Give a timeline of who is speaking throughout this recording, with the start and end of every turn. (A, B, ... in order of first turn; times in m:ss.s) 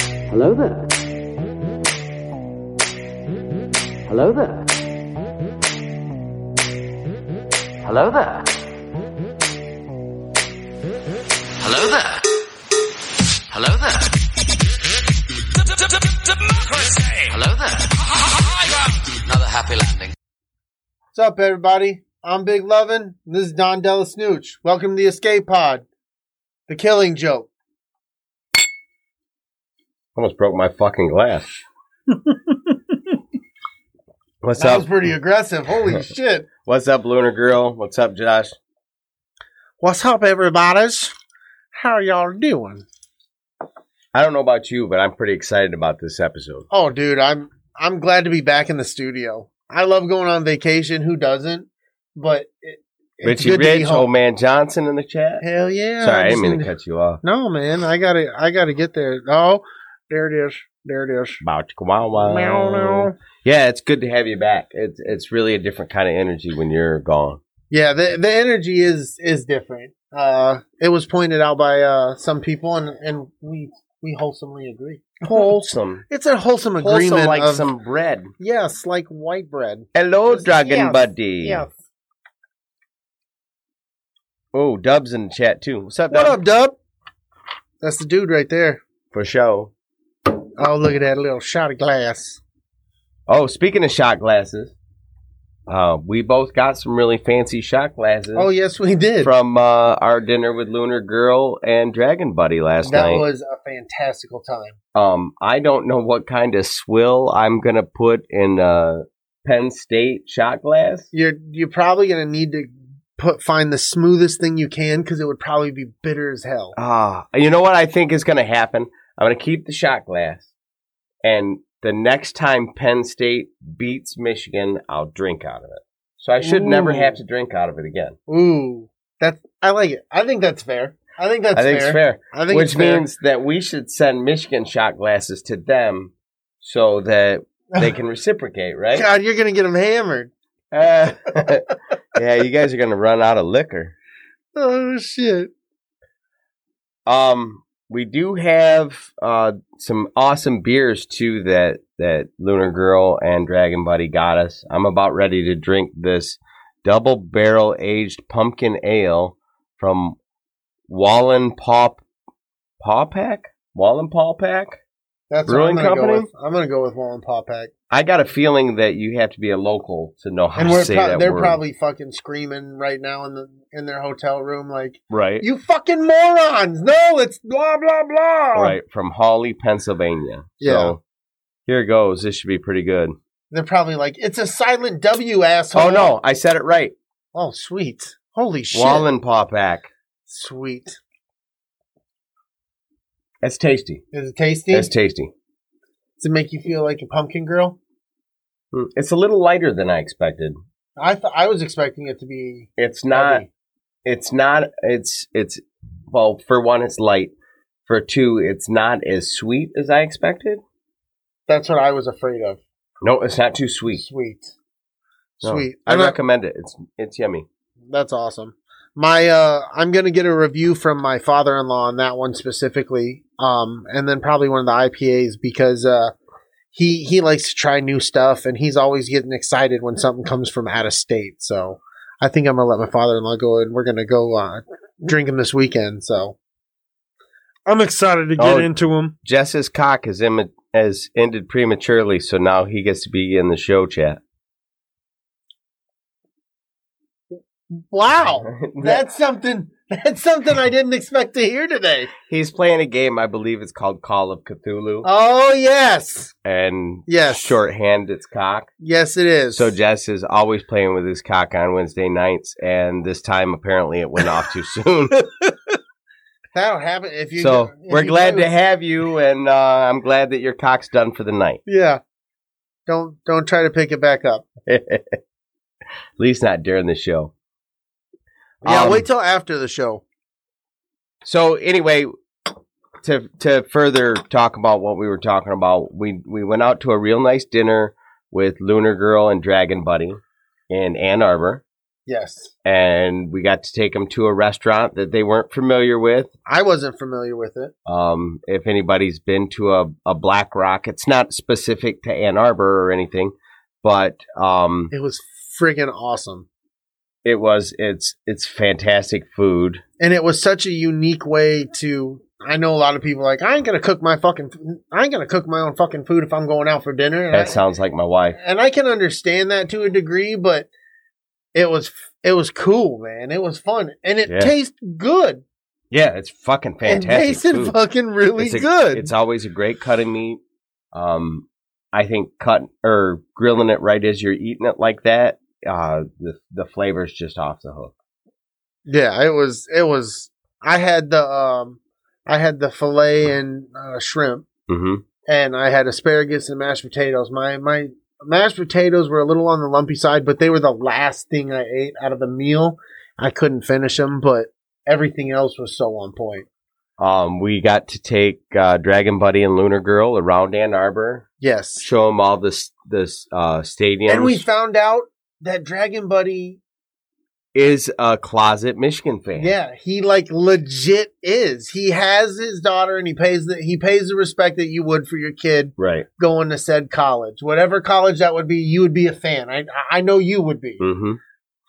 0:00.3-0:01.0 A
0:04.1-0:04.7 A
0:07.8-0:08.5 A
0:11.6-0:12.3 A
0:13.5-0:14.2 A
0:15.7-0:20.1 A
0:21.1-0:25.8 B
0:26.7-0:27.5 B
0:30.2-0:31.6 C
0:32.2-0:32.6 B
0:34.4-0:34.9 C
0:34.6-0:36.5 B
0:36.6-0:38.6 C
0:39.8-0:41.1 B
0:41.7-0:42.8 B
0:44.1-0:46.7 C
0:46.7-0:54.1 B
0:53.2-0:55.4 C
0:55.4-0:56.7 B
0:56.0-0:57.2 C
0:57.2-1:01.4 B
1:01.4-1:07.4 C
1:02.2-1:03.2 B
1:07.7-1:17.7 B
1:15.3-1:16.0 C
1:16.8-1:18.3 C
1:18.4-1:21.8 B
1:20.0-1:21.7 C
1:24.5-1:26.4 C
1:26.1-1:26.8 B
1:27.8-1:28.8 B
1:29.1-1:29.7 C
1:30.6-1:32.4 B
1:33.3-1:34.7 C
1:35.7-1:38.5 C
1:38.4-1:39.3 B
1:39.2-1:43.2 C
1:42.8-1:44.8 B
1:44.9-1:51.1 C
1:51.1-1:56.8 B
1:56.8-2:00.5 C
2:01.2-2:08.2 C
2:06.4-2:07.2 B
2:08.3-2:13.1 B
2:11.5-2:19.1 C
2:18.9-2:20.3 B
2:20.7-2:23.9 C
2:24.6-2:25.5 B
2:27.1-2:40.2 C
2:40.9-2:42.0 C
2:42.8-2:44.8 C
2:45.3-2:47.7 B
2:45.5-2:46.3 C
2:47.9-2:51.6 C
2:50.6-2:58.8 B
2:55.1-2:55.4 C
2:58.6-3:01.0 C
3:00.6-3:01.0 B
3:01.7-3:03.2 C
3:03.5-3:06.1 B
3:05.7-3:07.0 C
3:07.3-3:09.1 B
3:08.7-3:09.9 C
3:10.3-3:11.0 B
3:13.4-3:14.0 C
3:14.1-3:14.9 B
3:14.7-3:15.3 C
3:16.2-3:17.8 B
3:18.7-3:20.6 C
3:21.0-3:23.5 B
3:22.8-3:23.5 C
3:24.0-3:27.3 C
3:27.9-3:30.6 C
3:31.5-3:32.6 B
3:33.0-3:34.0 C
3:33.9-3:34.5 B
3:35.4-3:36.2 B
3:35.4-3:37.5 C
3:37.9-3:46.1 B
3:46.7-3:56.4 B
3:57.7-3:59.1 B
3:58.4-3:58.7 C
3:59.2-4:04.2 C
4:07.8-4:12.1 B
4:08.4-4:09.0 C
4:12.3-4:15.1 C
4:15.0-4:16.3 B
4:16.4-4:18.7 C
4:17.1-4:17.6 B
4:18.8-4:19.7 B
4:19.5-4:25.2 C
4:25.1-4:25.5 B
4:26.5-4:28.5 B
4:27.4-4:31.6 C
4:31.7-4:32.0 B
4:32.9-4:34.5 B
4:34.7-4:35.2 C
4:36.2-4:37.3 C
4:38.6-4:39.1 C
4:38.6-4:40.0 B
4:41.2-4:42.1 C
4:43.0-4:51.6 C
4:52.1-4:52.5 B
4:52.6-4:56.3 C
4:56.5-4:57.7 B
4:57.9-5:04.9 C
5:04.9-5:06.5 B
5:07.2-5:09.8 C
5:10.0-5:17.6 B
5:17.3-5:18.4 C
5:18.4-5:20.7 B
5:21.5-5:25.4 B
5:24.3-5:24.5 C
5:25.9-5:27.7 C
5:26.8-5:29.1 B
5:28.4-5:30.4 C
5:30.9-5:37.9 C
5:38.9-5:44.5 B
5:44.7-5:45.0 C
5:45.3-5:56.5 B
5:57.0-6:01.3 C
6:01.4-6:01.9 B
6:01.8-6:04.4 C
6:04.1-6:06.6 B
6:07.5-6:09.5 C
6:09.4-6:20.8 B
6:15.8-6:16.1 C
6:20.8-6:21.2 C